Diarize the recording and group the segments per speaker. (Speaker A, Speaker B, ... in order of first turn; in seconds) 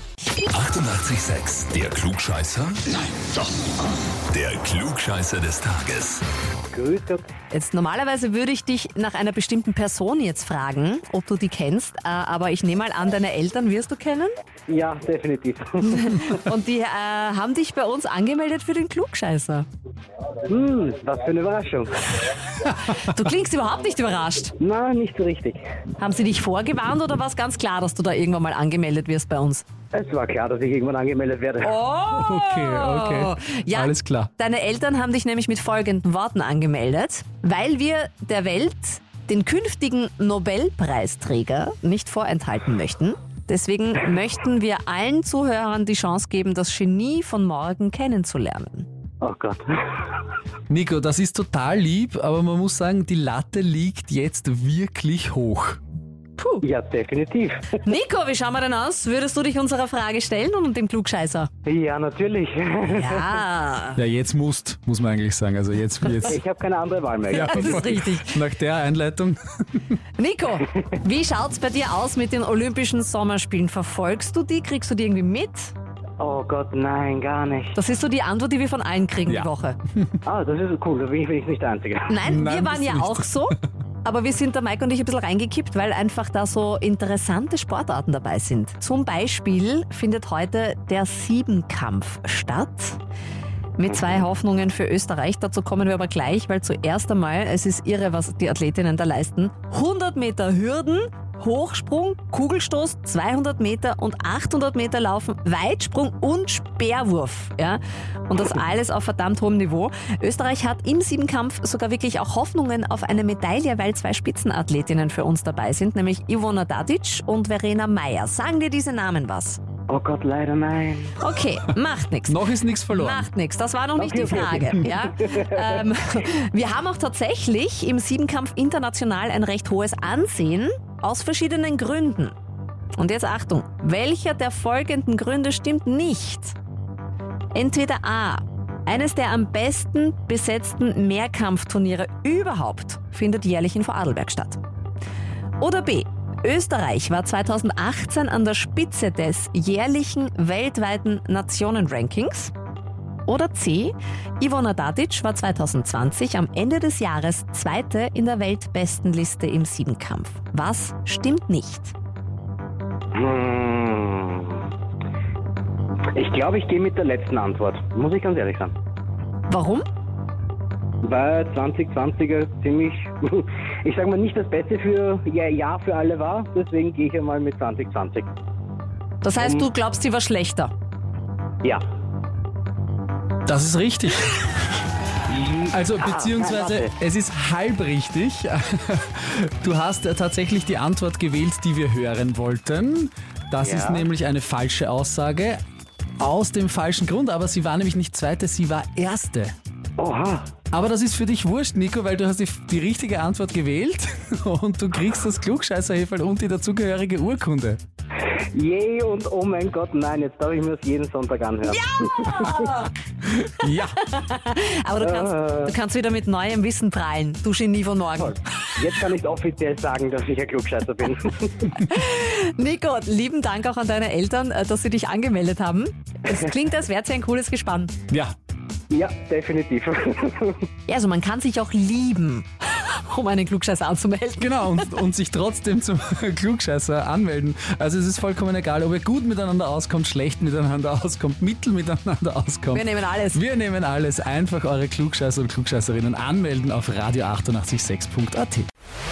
Speaker A: 0.5-2.9, 4.3-6.2
Speaker B: 6.7-7.3, 14.7-16.4, 20.5-22.0, 24.6-25.6, 29.9-31.8, 49.2-50.1, 56.6-57.7, 61.7-63.4, 66.2-67.9, 76.2-77.8, 80.2-82.2, 119.9-121.1, 124.0-125.7, 163.1-164.7, 166.2-168.7, 171.0-178.3, 179.3-179.7, 185.3-186.9, 193.6-194.1, 200.0-200.5, 208.5-212.8, 215.0-215.7, 218.2-221.8, 228.9-230.7
Speaker C: 7.5-14.3, 15.8-19.7, 22.7-24.5, 26.0-29.6, 31.6-48.9, 56.4-56.6, 57.8-61.5, 62.9-64.0, 67.3-68.4, 70.2-75.7, 77.8-79.8, 82.1-93.0, 93.8-119.6, 121.2-132.3, 133.0-136.6, 137.5-144.6, 145.6-152.5, 153.2-161.9, 169.5-169.8, 179.2-180.7, 211.6-212.9, 213.7-218.5, 221.8-227.9, 230.9-235.0, 242.7-243.4
Speaker D: 32.1-34.3, 50.7-55.8, 64.0-66.4, 67.3-69.9, 79.3-80.2, 82.2-83.5, 122.3-123.3, 183.5-184.7, 185.7-195.6, 196.2-199.5, 200.7-207.8, 213.2-214.0, 228.1-228.3, 234.4-248.7